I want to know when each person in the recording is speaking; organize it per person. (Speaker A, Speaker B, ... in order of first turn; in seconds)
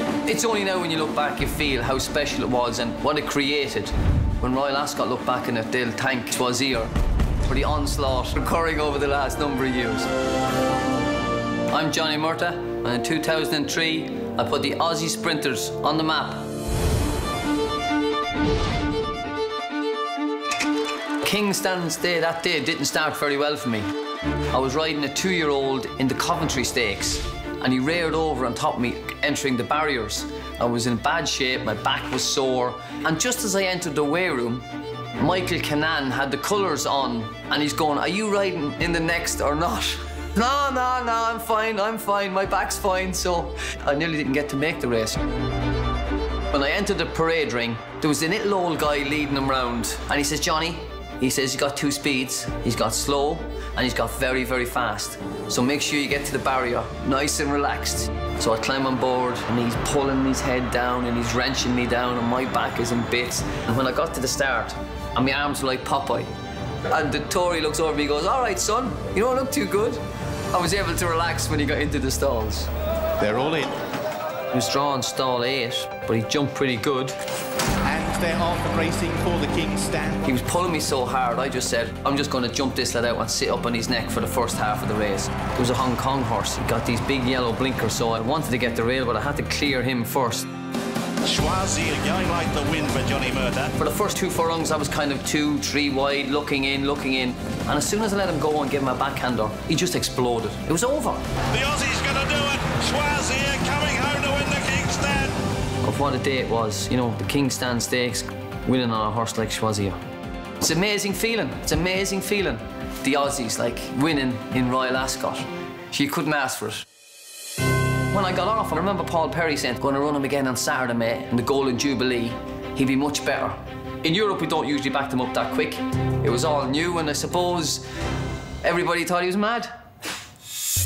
Speaker A: 0.2-6.9, 7.5-10.1, 11.7-16.5, 21.2-23.9, 24.5-34.6, 35.2-45.2, 46.5-66.3, 66.9-70.0, 70.5-72.7, 74.5-77.2, 80.2-90.5, 93.8-101.2, 105.8-110.0, 110.6-116.8, 118.1-127.8, 128.6-129.7
Speaker B: 73.2-73.7, 77.9-80.2
Speaker C: 91.2-93.8, 101.5-105.4